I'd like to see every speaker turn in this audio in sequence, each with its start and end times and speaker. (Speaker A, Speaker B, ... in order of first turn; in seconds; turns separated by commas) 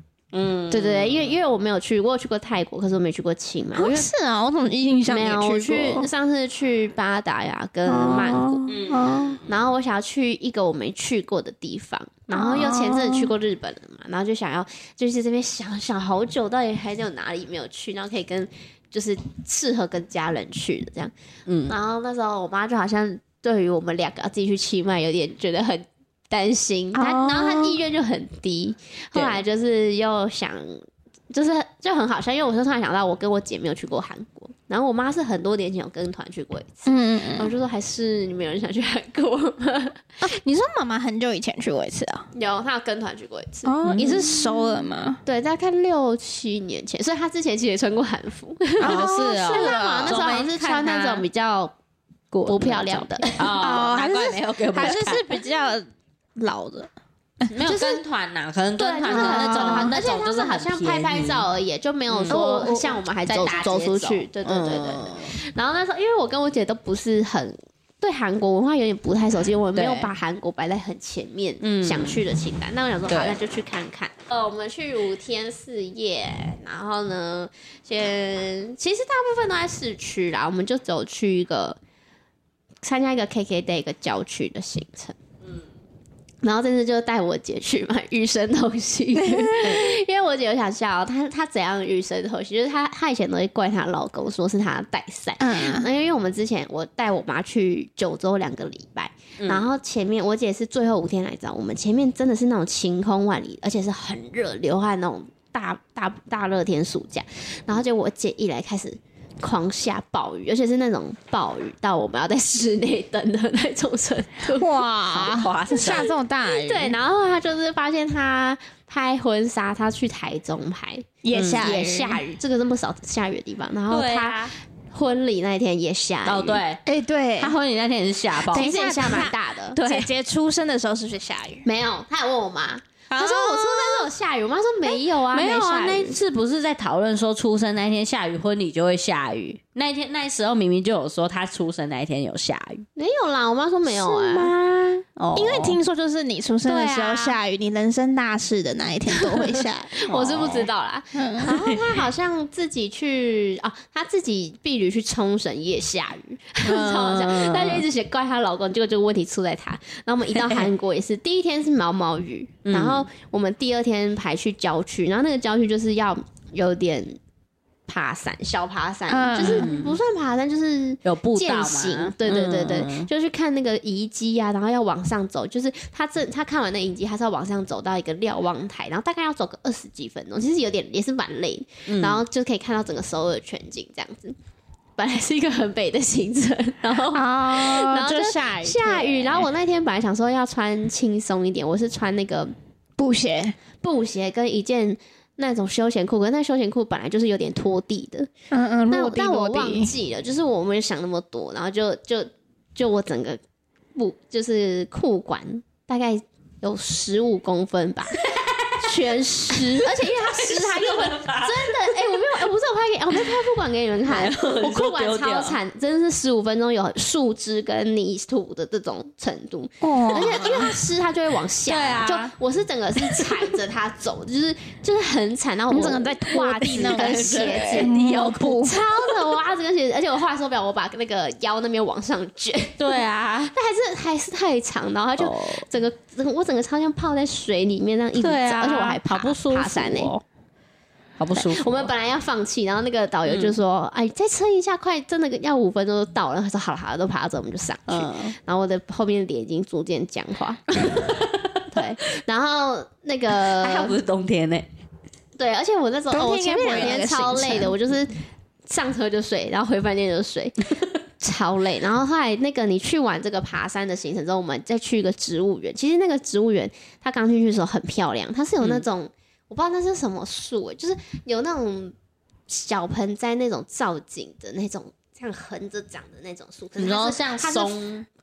Speaker A: 0.3-1.4, Speaker B: 0.7-4.1, Speaker C: 3.8-6.1, Speaker B: 5.1-8.7, Speaker C: 7.9-9.4, Speaker A: 8.1-9.4, Speaker B: 9.4-21.1, Speaker C: 12.3-13.3, Speaker A: 21.5-21.8, Speaker B: 21.7-40.0, Speaker C: 26.9-27.7, Speaker A: 29.1-29.4, Speaker C: 36.9-37.5, Speaker C: 40.2-42.2, Speaker B: 42.3-44.4, Speaker C: 43.6-45.2, Speaker A: 43.8-44.2, Speaker B: 45.2-51.7, Speaker C: 48.8-50.2, Speaker A: 48.8-51.2, Speaker A: 52.3-55.3, Speaker B: 52.5-53.6, Speaker C: 53.6-57.6, Speaker A: 57.5-61.5, Speaker B: 57.6-58.0, Speaker B: 58.8-81.8, Speaker C: 59.1-59.9, Speaker A: 62.1-62.4, Speaker C: 62.3-63.0, Speaker A: 63.2-65.3, Speaker A: 69.8-70.1, Speaker A: 71.6-72.2, Speaker A: 73.1-73.3, Speaker B: 82.8-85.2, Speaker B: 86.4-114.8, Speaker C: 89.3-89.5, Speaker A: 89.6-89.9, Speaker C: 95.4-95.9, Speaker A: 99.4-99.7, Speaker C: 114.5-117.0, Speaker A: 115.1-116.1, Speaker B: 115.7-126.6, Speaker C: 121.2-122.2, Speaker A: 121.3-121.7, Speaker A: 123.9-124.5, Speaker A: 126.2-126.8, Speaker C: 126.9-127.6, Speaker A: 127.4-129.2, Speaker B: 128.5-129.8, Speaker C: 128.5-131.7, Speaker A: 129.8-130.1, Speaker B: 131.6-136.2, Speaker C: 133.1-134.1, Speaker A: 135.3-142.8, Speaker B: 142.9-144.9, Speaker A: 144.0-145.8, Speaker C: 145.3-149.9, Speaker B: 146.7-147.3, Speaker B: 149.2-167.2, Speaker A: 150.1-150.7, Speaker C: 151.2-151.5, Speaker A: 151.5-152.0, Speaker A: 156.6-157.8, Speaker A: 160.3-160.7, Speaker A: 162.6-163.1, Speaker B: 167.9-184.4, Speaker C: 169.1-169.7, Speaker A: 169.4-170.0, Speaker A: 171.1-173.1, Speaker A: 181.9-182.2, Speaker B: 185.0-192.5, Speaker C: 187.1-189.3, Speaker C: 193.0-193.6, Speaker B: 193.8-198.3, Speaker C: 198.5-199.9, Speaker B: 198.9-203.4, Speaker B: 203.9-208.2, Speaker A: 208.1-212.2, Speaker B: 208.8-240.1, Speaker A: 214.1-215.6, Speaker C: 219.8-220.6, Speaker A: 220.1-220.7, Speaker A: 221.7-222.3, Speaker A: 223.0-223.4, Speaker C: 225.7-228.8, Speaker A: 226.7-229.1, Speaker A: 232.8-233.5, Speaker A: 235.2-235.6, Speaker A: 238.2-240.2, Speaker A: 241.2-241.9, Speaker B: 241.4-251.1, Speaker A: 243.3-243.6, Speaker A: 247.9-248.3, Speaker A: 250.8-251.8, Speaker B: 251.7-254.0, Speaker A: 253.4-254.7, Speaker B: 255.4-260.6, Speaker C: 256.1-257.8, Speaker B: 261.2-271.9, Speaker B: 272.5-277.8, Speaker A: 276.8-278.1